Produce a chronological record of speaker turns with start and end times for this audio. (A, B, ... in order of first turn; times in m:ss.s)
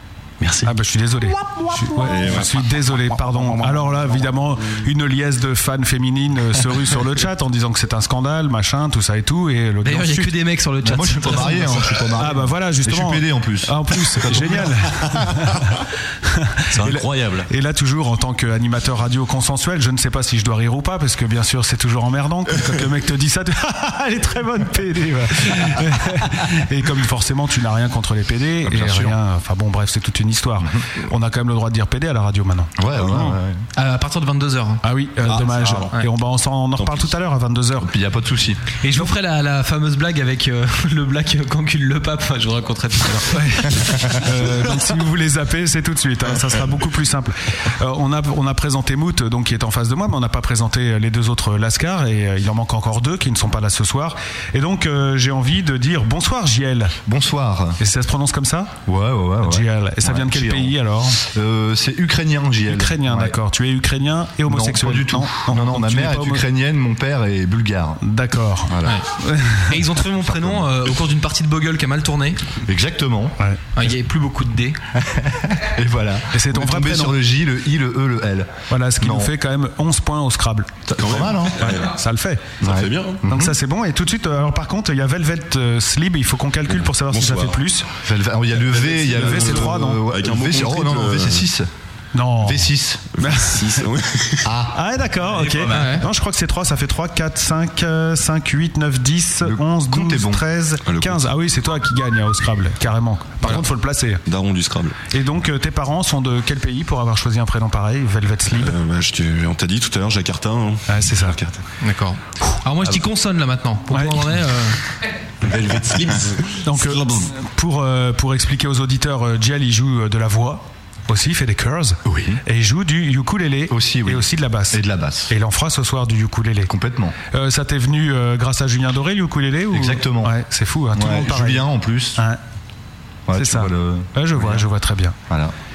0:00.4-0:00.7 A
0:00.6-0:10.3 B
0:02.0-0:02.6 C
0:09.8-0:12.1 D
0:10.8-0:15.5 E
0:12.2-0:33.4 B
0:16.7-0:17.5 A
0:32.8-0:33.6 E
0:33.8-0:34.8 D
0:34.8-0:37.9 B
0:35.3-0:35.9 C
0:36.8-0:37.1 C
0:37.8-0:38.6 E
0:38.8-0:43.4 D
0:43.3-0:57.0 B
0:57.1-0:57.8 E
0:57.8-0:58.8 B
0:58.9-1:03.4 E
0:59.4-1:01.2 B
1:02.7-1:06.4 B
1:04.4-1:08.0 E
1:08.0-1:09.8 B
1:08.7-1:09.0 E
1:09.7-1:12.4 D
1:10.2-1:10.7 E
1:12.7-1:13.4 E
1:13.8-1:14.8 D
1:15.0-1:19.3 E
1:16.3-1:17.2 B
1:18.7-1:20.8 B
1:20.9-1:21.9 C
1:21.0-1:21.8 E
1:21.6-1:22.6 B
1:22.6-1:23.6 E
1:22.6-1:23.2 C
1:23.3-1:27.9 B
1:26.7-1:27.6 C
1:28.0-1:31.7 E
1:28.8-1:31.5 C
1:29.1-1:30.1 B
1:32.1-1:33.8 B
1:32.4-1:33.1 E
1:33.2-1:34.6 C
1:34.4-1:34.8 E
1:34.7-1:44.2 B
1:35.4-1:35.7 A
1:35.7-1:36.1 D
1:39.4-1:40.4 E
1:40.8-1:41.3 C
1:44.3-1:45.0 C
1:45.1-1:48.8 B
1:48.6-1:51.6 C
1:50.9-1:51.4 B
1:51.8-1:54.8 D
1:53.9-1:54.3 B
1:55.5-1:56.3 C
1:55.5-1:56.6 A
1:56.6-2:06.7 B
1:56.8-1:57.2 C
2:02.1-2:02.4 E
2:03.7-2:05.3 E
2:06.7-2:07.2 E
2:07.3-2:11.6 B
2:09.7-2:10.4 E
2:10.9-2:12.2 E
2:13.3-2:14.7 E
2:13.3-2:15.2 B
2:15.3-2:15.5 E